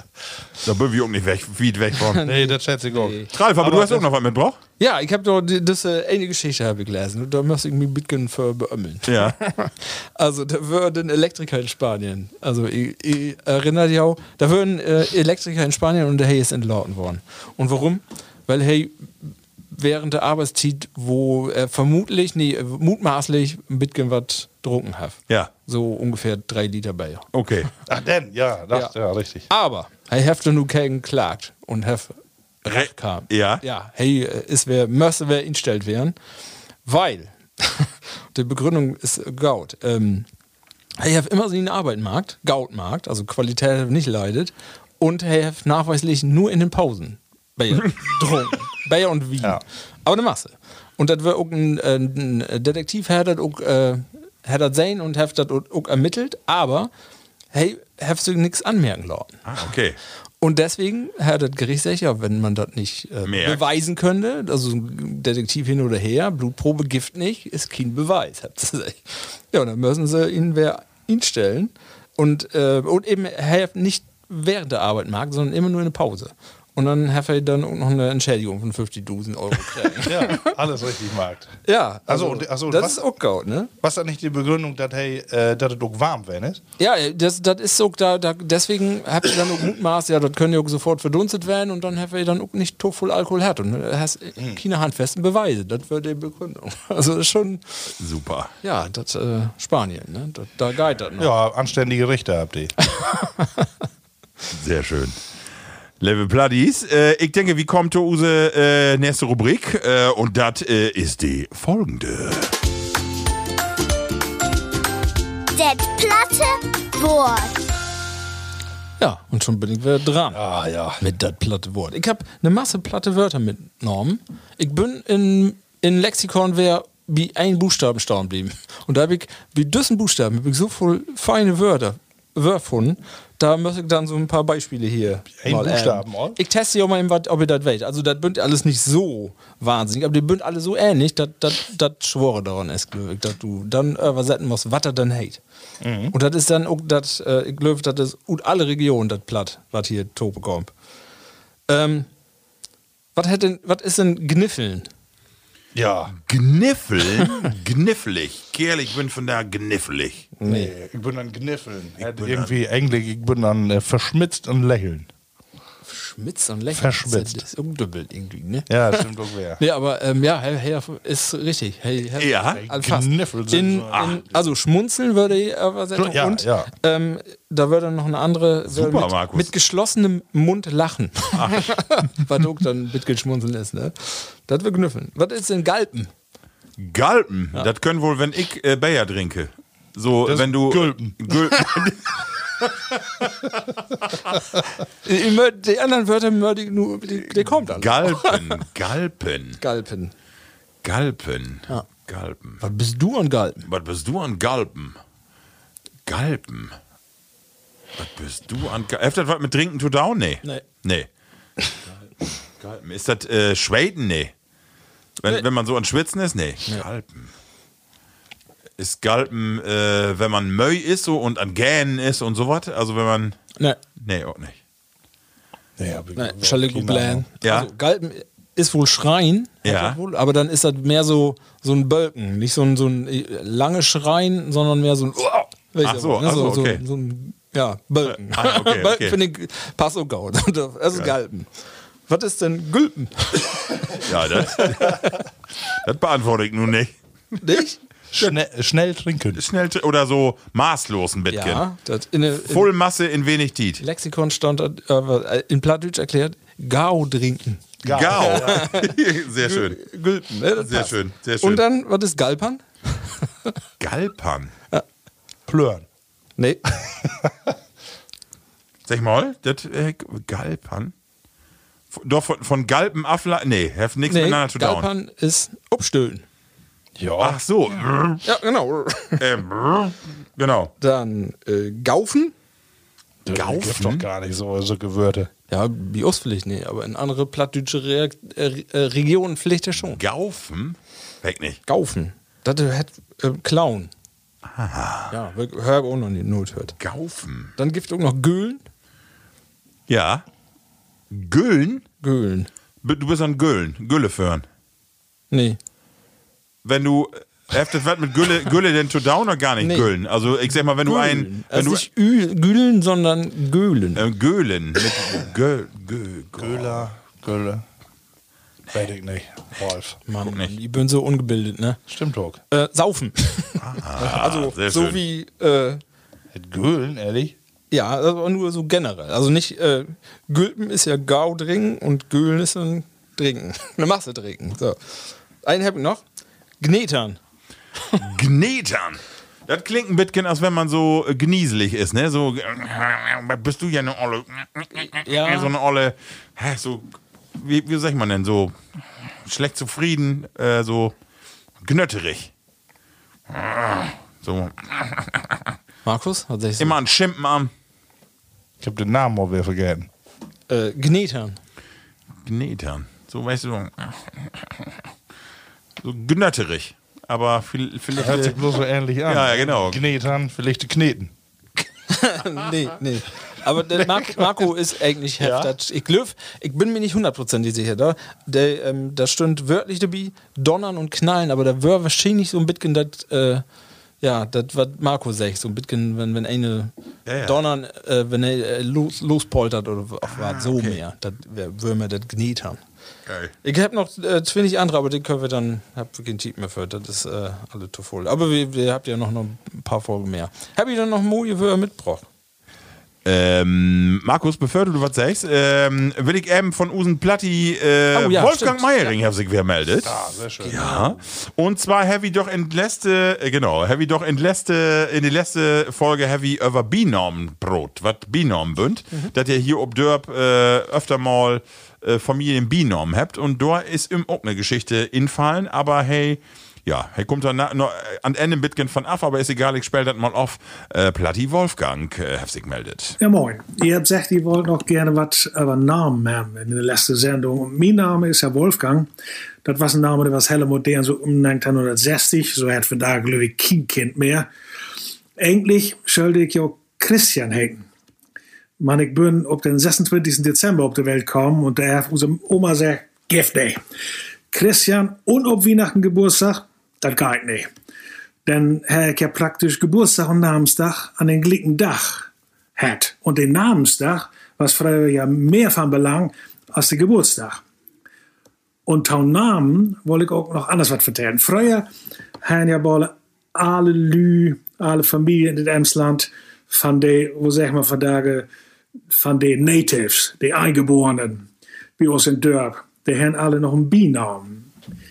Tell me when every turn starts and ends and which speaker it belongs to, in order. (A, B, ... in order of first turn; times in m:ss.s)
0:00.6-0:02.3 A
0:02.1-0:03.3 B
0:02.2-0:04.1 C
0:03.3-0:04.6 A
0:04.8-0:27.3 B
0:09.1-0:09.4 A
0:27.3-0:27.7 A
0:27.9-0:29.5 C
0:29.5-0:36.2 B
0:32.7-0:33.6 A
0:36.8-0:40.3 B
0:41.0-0:56.9 B
0:57.5-0:59.4 B
0:59.4-1:00.0 A
1:00.4-1:20.5 B
1:03.2-1:03.6 A
1:20.0-1:23.1 C
1:21.6-1:23.7 B
1:23.8-1:26.6 C
1:26.8-1:37.8 B
1:38.0-1:38.5 A
1:38.6-1:41.3 B
1:41.2-1:42.8 C
1:43.0-1:43.7 B
1:44.5-1:45.2 A
1:46.0-1:52.6 A
1:55.5-1:57.6 D
1:59.0-2:00.4 B
2:00.3-2:01.0 C
2:01.0-2:25.4 B
2:15.4-2:16.4 C
2:25.8-2:26.2 C
2:26.1-2:30.7 B
2:31.7-2:32.1 B
2:33.2-2:34.9 B
2:35.8-2:36.1 C
2:36.2-2:40.3 A
2:40.4-2:40.7 B
2:40.4-2:45.1 C
2:42.0-2:42.5 A
2:45.9-2:49.1 B
2:46.7-2:47.4 C
2:48.7-2:49.6 C
2:49.6-3:06.1 B
2:52.2-2:52.6 A
2:52.5-2:54.3 C
2:56.0-2:56.7 C
2:58.7-2:59.5 A
3:01.3-3:01.8 A
3:06.8-3:12.2 A
3:10.2-3:11.3 C
3:15.0-3:18.6 B
3:17.5-3:19.6 A
3:19.6-3:20.1 B
3:20.8-3:22.6 A
3:22.6-3:23.7 B
3:23.7-3:25.0 A
3:26.1-3:26.8 A
3:28.0-3:31.1 A
3:32.6-3:34.3 A
3:35.2-3:37.3 A
3:38.8-3:43.4 A
3:44.0-3:44.6 A
3:45.8-3:47.3 C
3:46.2-4:01.5 B
3:47.4-3:47.7 A
3:49.6-3:50.0 A
3:55.8-3:56.8 A
3:58.1-3:59.2 A
4:02.1-4:05.2 B
4:04.0-4:05.1 A
4:05.7-4:07.0 A
4:07.4-4:07.8 B
4:08.1-4:09.4 C
4:09.4-4:11.7 A
4:11.3-4:12.7 B
4:12.4-4:13.8 A
4:13.8-4:23.5 B
4:17.8-4:18.7 C
4:17.8-4:19.8 A
4:20.6-4:21.6 A
4:23.8-4:24.5 A
4:25.5-4:25.8 C
4:26.4-4:26.6 B
4:26.8-4:27.5 C
4:28.9-4:30.9 A
4:31.9-4:34.9 A
4:34.1-4:36.2 B
4:37.0-4:37.4 C
4:37.2-4:38.2 A
4:38.2-4:39.2 B
4:39.2-4:40.7 A
4:40.8-4:42.3 B
4:43.2-4:45.3 C
4:43.3-4:44.1 A
4:45.5-4:50.0 B
4:49.9-4:51.6 A
4:51.7-4:53.9 B
4:54.5-4:55.1 A
4:55.1-4:56.8 B
4:56.8-4:57.5 A
4:57.6-4:58.6 B
4:59.9-5:00.2 A
5:01.1-5:01.8 A
5:02.0-5:02.5 B
5:02.8-5:04.4 A
5:05.3-5:05.6 B
5:06.6-5:11.8 A
5:09.6-5:09.9 B
5:10.8-5:14.0 B
5:14.0-5:16.9 A
5:16.4-5:17.6 C
5:18.7-5:20.0 C
5:20.1-5:21.8 B
5:21.9-5:22.4 C
5:22.5-5:25.8 B
5:23.6-5:25.0 A
5:26.3-5:27.4 C
5:27.7-5:36.0 B
5:36.6-5:37.2 B
5:38.0-5:48.6 A
5:44.8-5:45.5 B
5:49.2-5:50.9 A
5:51.6-5:52.3 A
5:53.3-5:55.4 A
5:55.8-5:56.8 B
5:56.6-5:57.5 A
5:58.6-5:59.9 C
6:00.5-6:01.4 B
6:02.2-6:04.0 A
6:05.8-6:08.4 A
6:08.0-6:11.1 C
6:09.1-6:09.8 A
6:11.9-6:23.4 B
6:15.2-6:15.5 C
6:24.0-6:32.6 B
6:27.1-6:27.4 A
6:30.2-6:30.8 A
6:33.1-6:33.3 A
6:33.4-6:42.1 B
6:43.0-6:50.0 A
6:47.9-6:48.9 B
6:49.8-6:51.0 C
6:50.4-6:50.9 B
6:50.5-7:13.0 A
7:13.0-7:18.9 E
7:19.4-7:24.3 E
7:25.2-7:27.7 E
7:28.6-7:33.6 E
7:34.3-7:37.5 E
7:38.3-7:47.4 E
7:48.7-7:51.7 E
7:52.2-7:58.3 E
7:58.9-8:04.5 E